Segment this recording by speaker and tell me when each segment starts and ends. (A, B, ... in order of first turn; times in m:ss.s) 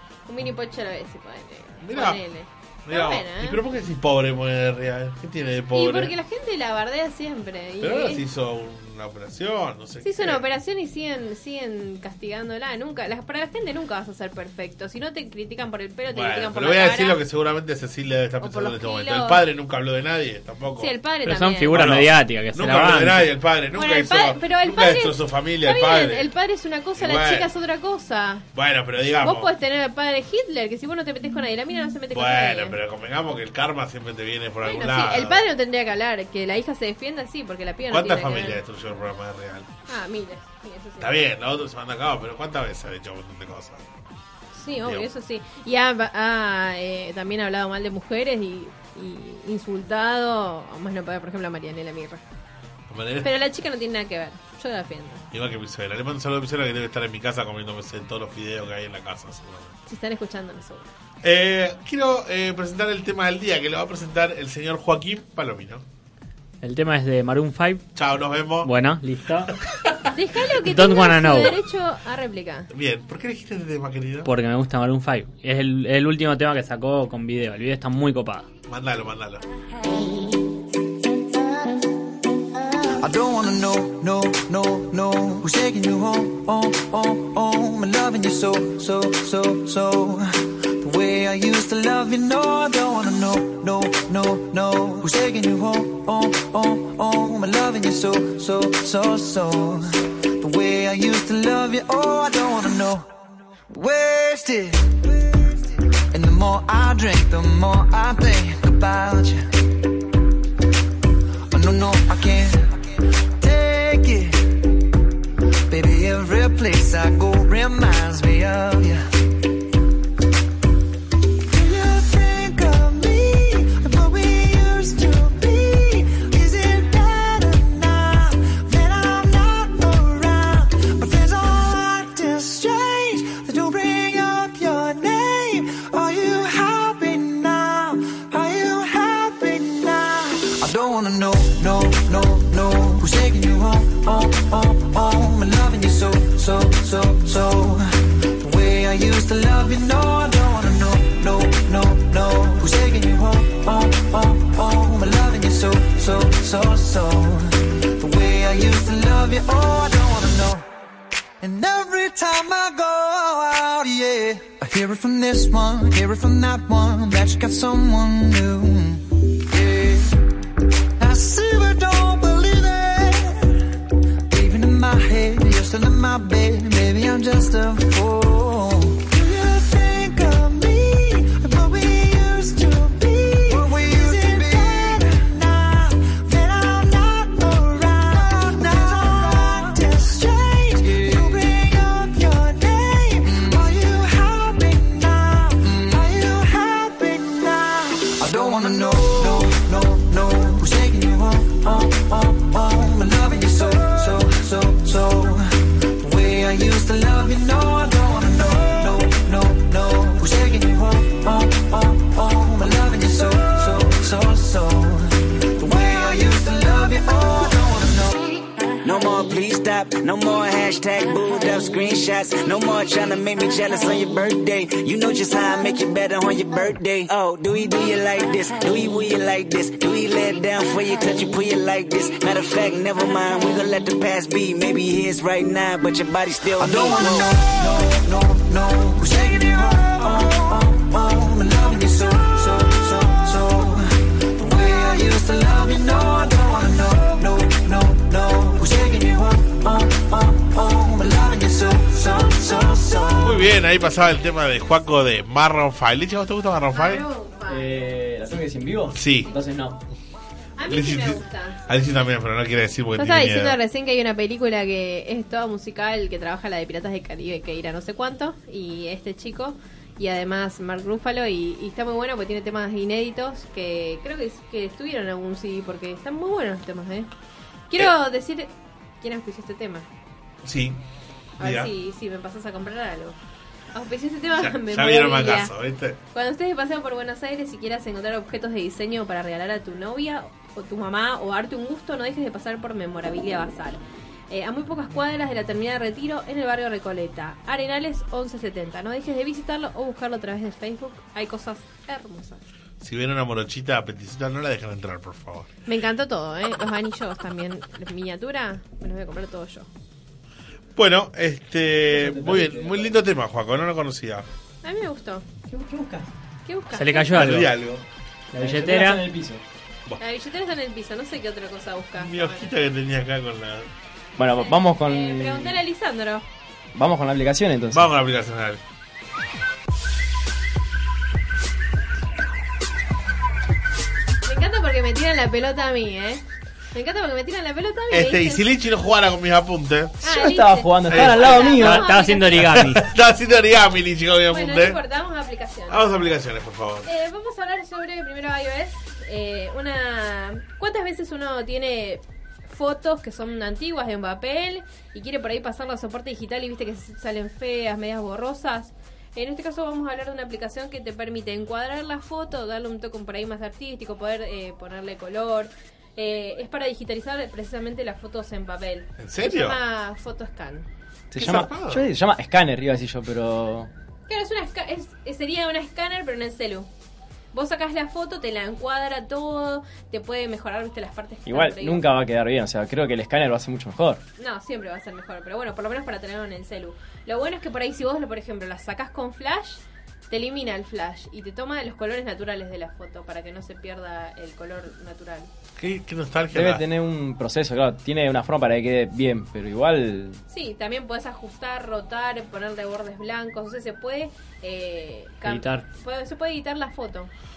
0:00.3-0:03.6 A
0:01.8-0:02.2 B
0:02.9-0:06.1 B
0:05.7-0:08.2 A
0:07.8-0:10.4 B
0:10.0-0:17.2 A
0:16.1-0:20.9 B
0:18.4-0:19.4 A
0:20.8-0:21.8 A
0:21.2-0:23.3 C
0:21.7-0:26.3 B
0:23.7-0:28.4 A
0:27.0-0:27.5 B
0:28.5-0:29.5 B
0:29.2-0:32.8 A
0:32.1-0:35.4 B
0:34.6-0:38.6 A
0:37.9-0:39.7 B
0:39.9-0:41.2 A
0:41.0-0:43.8 B
0:44.5-0:52.2 A
0:44.8-0:45.1 B
0:52.9-0:53.3 B
0:53.2-0:55.2 A
0:55.3-0:59.7 B
0:59.9-1:00.9 A
1:01.2-1:05.8 B
1:06.6-1:07.9 C
1:07.9-1:08.7 B
1:08.6-1:09.5 C
1:10.1-1:12.7 A
1:10.6-1:11.6 C
1:12.7-1:14.3 B
1:14.2-1:18.5 C
1:18.7-1:19.4 B
1:22.9-1:43.1 D
1:43.7-1:45.0 D
1:46.1-1:49.5 D
1:51.5-1:52.8 D
1:53.4-1:54.4 D
1:55.7-1:59.0 D
2:01.5-2:40.6 D
2:41.4-2:50.1 D
2:51.0-2:53.5 D
2:54.3-3:38.2 D
3:38.8-3:57.4 E
3:56.5-4:13.4 D
4:13.2-4:17.0 B
4:16.7-4:17.7 A
4:17.5-4:19.8 F
4:18.9-4:19.3 B
4:20.6-4:21.6 A
4:20.6-4:23.6 B
4:23.0-4:37.1 A
4:37.7-4:39.9 A
4:40.4-4:40.8 B
4:41.4-4:41.7 B
4:41.4-4:43.2 A
4:43.7-4:45.5 A
4:44.4-4:46.0 B
4:46.1-5:02.4 A
5:02.8-5:05.5 B
5:05.7-5:09.7 A
5:10.7-5:14.2 B
5:11.8-5:13.0 F
5:14.6-5:15.2 A
5:15.5-5:16.1 F
5:16.4-5:17.3 A
5:16.7-5:17.6 C
5:17.1-5:17.8 B
5:18.3-5:19.0 C
5:18.3-5:19.4 F
5:20.0-5:22.5 A
5:22.0-5:23.7 B
5:24.2-5:25.6 F
5:24.3-5:26.2 A
5:26.7-5:27.9 F
5:27.7-5:28.6 B
5:34.2-5:36.2 A
5:36.7-5:38.4 A
5:37.9-5:40.1 B
5:40.0-5:42.5 A
5:40.0-5:41.9 F
5:40.9-5:41.8 B
5:41.6-5:42.8 C
5:42.4-5:44.8 B
5:44.3-5:45.8 A
5:45.7-5:46.9 B
5:46.8-6:10.6 A
6:09.0-6:09.6 B
6:11.1-6:13.7 F
6:11.2-6:11.8 B
6:14.1-6:16.7 A
6:17.3-6:21.8 A
6:21.2-6:24.0 F
6:24.2-6:35.3 A
6:35.6-6:36.6 B
6:36.3-6:40.2 F
6:40.3-6:47.1 A
6:45.2-6:45.6 C